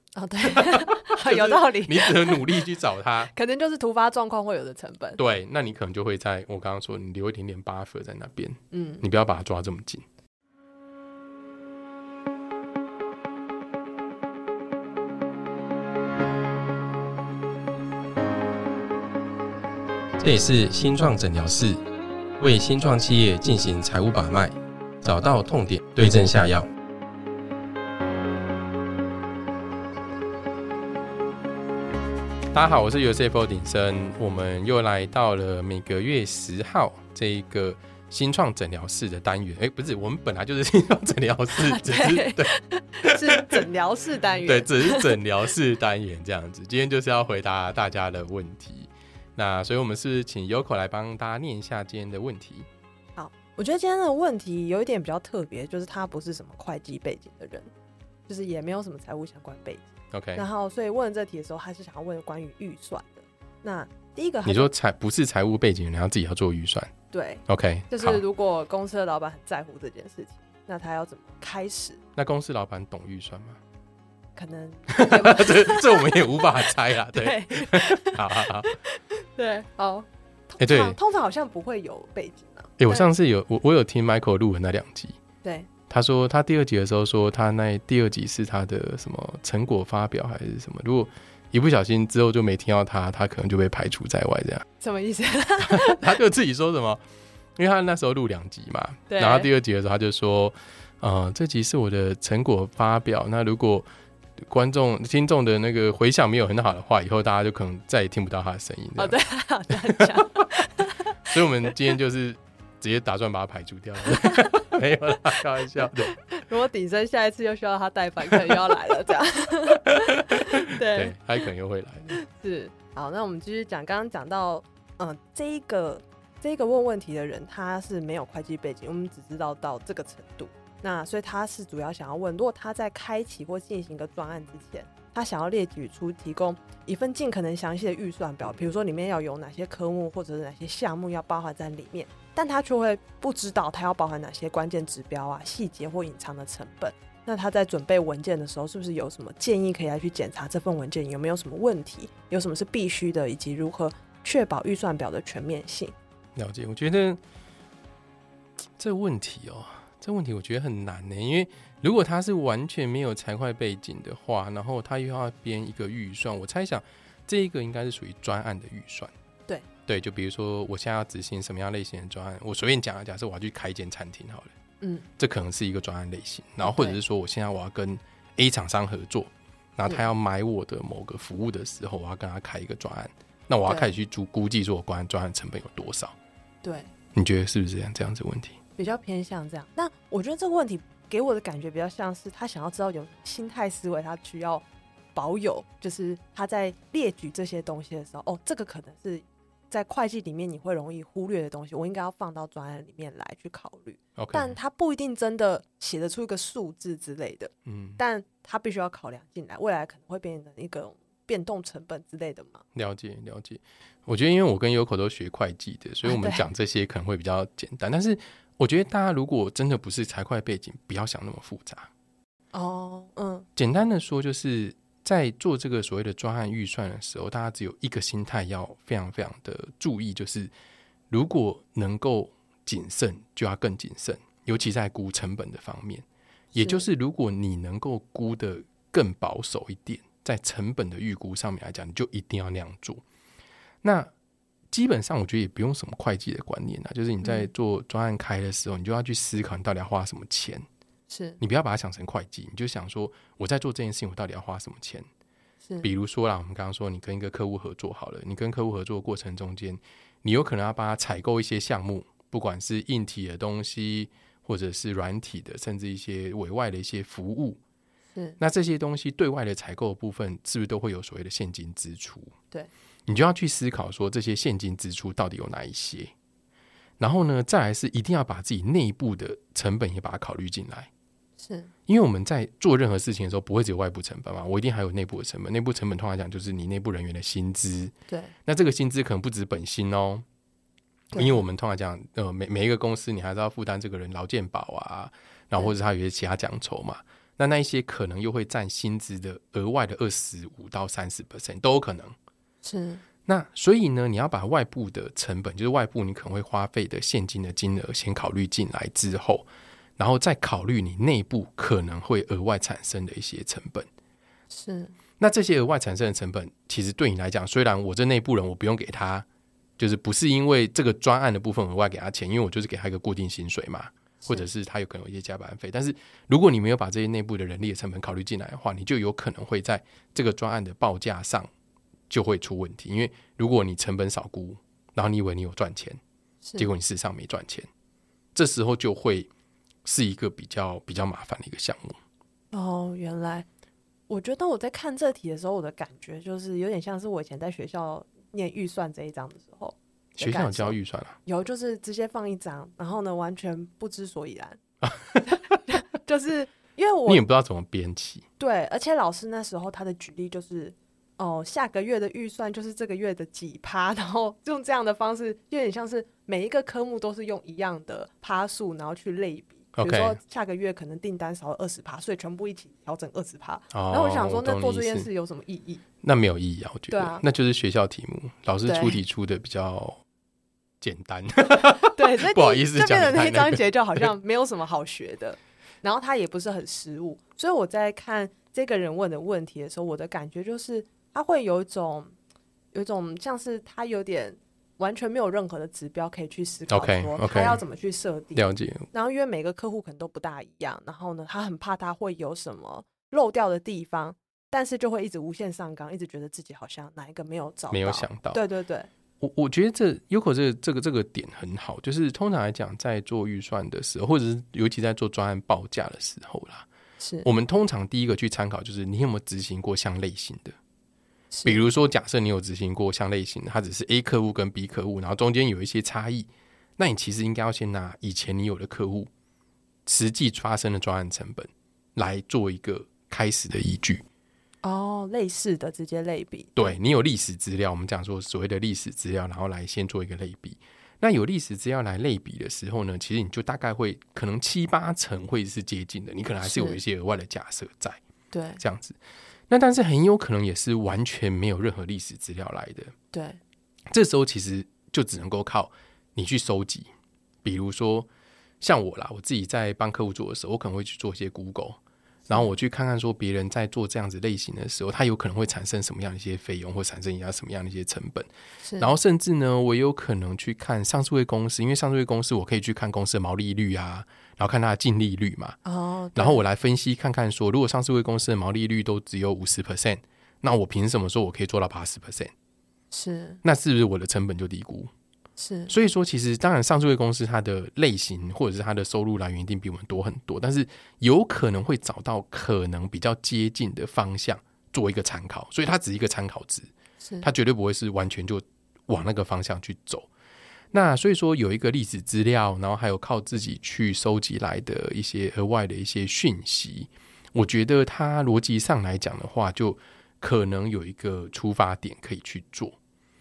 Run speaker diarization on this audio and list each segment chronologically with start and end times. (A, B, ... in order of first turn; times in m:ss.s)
0:00.1-0:02.6 A
0:00.5-0:03.3 B
0:03.3-0:05.2 A
0:05.2-0:10.0 B
0:08.7-0:09.0 A
0:20.2-0:21.8 B
0:22.4-0:26.7 B
0:32.5-0:42.5 B
0:41.6-0:45.2 A
0:43.0-0:43.6 B
0:44.4-0:52.7 B
0:53.2-0:57.7 A
0:58.3-1:04.7 A
1:00.1-1:00.4 B
1:04.4-1:06.9 B
1:07.1-1:12.0 A
1:07.5-1:08.2 B
1:12.2-1:13.6 B
1:14.4-1:23.1 A
1:14.9-1:18.8 B
1:20.6-1:21.0 B
1:22.8-1:25.2 B
1:25.4-1:25.7 A
1:25.9-1:34.7 B
1:34.8-1:36.0 A
1:35.6-1:37.0 B
1:37.6-1:43.8 B
1:39.1-1:39.5 A
1:44.5-1:49.2 B
1:49.0-1:51.4 A
1:51.2-1:56.1 B
1:55.8-2:01.5 A
1:59.9-2:02.2 B
2:02.1-2:35.9 A
2:36.4-2:37.2 B
2:38.8-2:49.1 B
2:49.8-2:54.5 B
2:54.8-2:55.0 A
2:55.2-3:06.1 B
2:56.6-2:57.0 A
3:03.6-3:03.9 A
3:06.6-3:06.9 A
3:07.1-3:08.5 B
3:08.8-3:32.6 A
3:24.2-3:24.6 B
3:27.6-3:28.0 B
3:32.7-3:41.9 B
3:36.0-3:36.4 A
3:42.5-3:43.5 A
3:43.6-3:50.5 B
3:51.1-4:03.0 B
3:56.5-3:56.9 A
4:03.8-4:04.1 B
4:04.7-4:10.6 B
4:07.2-4:07.5 A
4:11.1-4:11.4 A
4:11.4-4:15.1 B
4:15.8-4:27.6 B
4:28.1-4:28.4 A
4:28.4-4:32.3 B
4:33.1-4:36.1 B
4:37.0-4:40.9 B
4:41.4-4:41.7 A
4:41.9-4:47.9 B
4:48.1-4:48.3 A
4:48.4-4:50.2 B
4:51.1-4:51.4 A
4:51.1-5:02.1 B
5:02.6-5:03.0 A
5:03.2-5:09.4 B
5:10.0-5:13.9 B
5:14.5-5:14.9 A
5:15.2-5:19.2 B
5:19.8-5:31.5 B
5:32.1-5:36.0 B
5:36.4-5:36.7 A
5:36.6-5:37.7 B
5:38.3-5:39.3 B
5:39.8-5:42.0 B
5:42.5-5:43.4 A
5:44.1-5:54.6 A
5:50.2-5:51.2 B
5:54.8-5:55.2 B
5:55.2-5:57.2 A
5:57.1-5:58.2 B
5:58.4-6:15.8 A
6:09.7-6:10.2 B
6:13.7-6:15.1 B
6:16.0-6:20.0 B
6:16.9-6:17.2 A
6:18.6-6:19.0 A
6:20.8-6:24.1 B
6:21.8-6:32.1 A
6:32.7-6:48.9 A
6:36.7-6:37.6 B
6:38.4-6:38.9 B
6:47.7-6:48.4 B
6:49.2-6:56.7 B
6:57.0-6:57.3 A
6:57.2-7:00.6 B
7:01.3-7:01.6 A
7:01.4-7:09.1 B
7:09.8-7:14.0 B
7:14.6-7:16.7 A
7:16.6-7:28.0 B
7:26.4-7:26.8 A
7:28.3-7:28.6 A
7:28.6-7:29.0 B
7:29.5-7:32.9 B
7:33.1-7:33.4 A
7:33.9-7:36.9 B
7:37.4-7:38.1 B
7:38.6-7:41.8 B
7:42.3-7:48.3 B
7:48.6-7:48.9 A
7:48.8-7:55.6 B
7:55.6-7:56.4 A
7:56.2-8:02.3 B
8:02.9-8:03.4 A
8:03.4-8:04.9 B
8:05.4-8:05.7 A
8:05.7-8:16.7 B
8:17.0-8:17.3 A
8:17.2-8:20.1 B
8:20.7-8:32.8 B